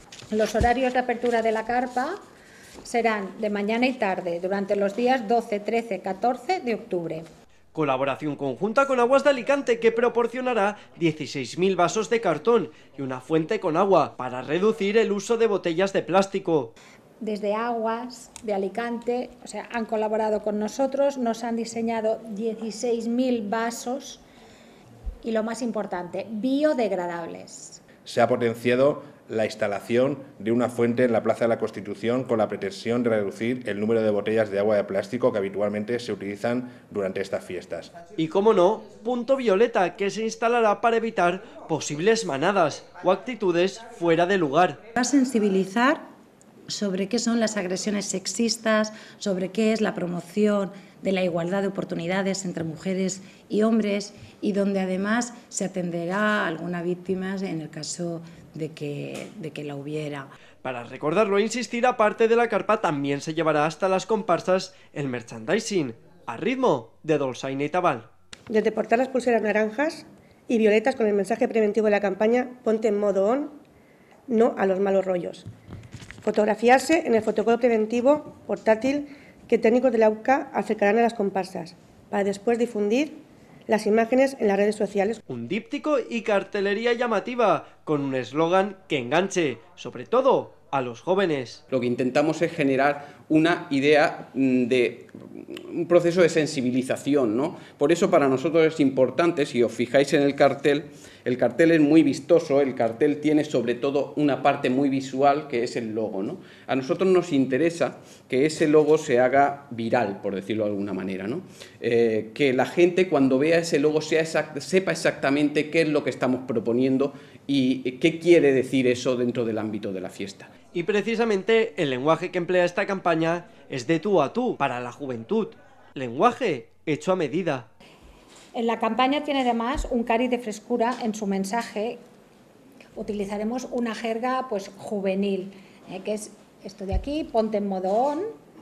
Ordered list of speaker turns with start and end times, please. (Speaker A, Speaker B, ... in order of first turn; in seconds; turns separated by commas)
Speaker A: 0.3-2.2, Speaker A: 2.8-7.3, Speaker B: 7.7-16.7, Speaker A: 17.2-24.2, Speaker A: 25.2-27.8, Speaker C: 28.1-38.0, Speaker B: 38.2-44.8, Speaker D: 45.0-46.0, Speaker D: 46.7-60.3, Speaker B: 60.6-68.1, Speaker E: 68.5-73.6, Speaker E: 74.3-75.5, Speaker E: 76.2-85.2, Speaker B: 85.3-91.6, Speaker F: 91.7-120.6, Speaker B: 120.7-127.7, Speaker A: 128.6-132.0, Speaker A: 132.9-138.4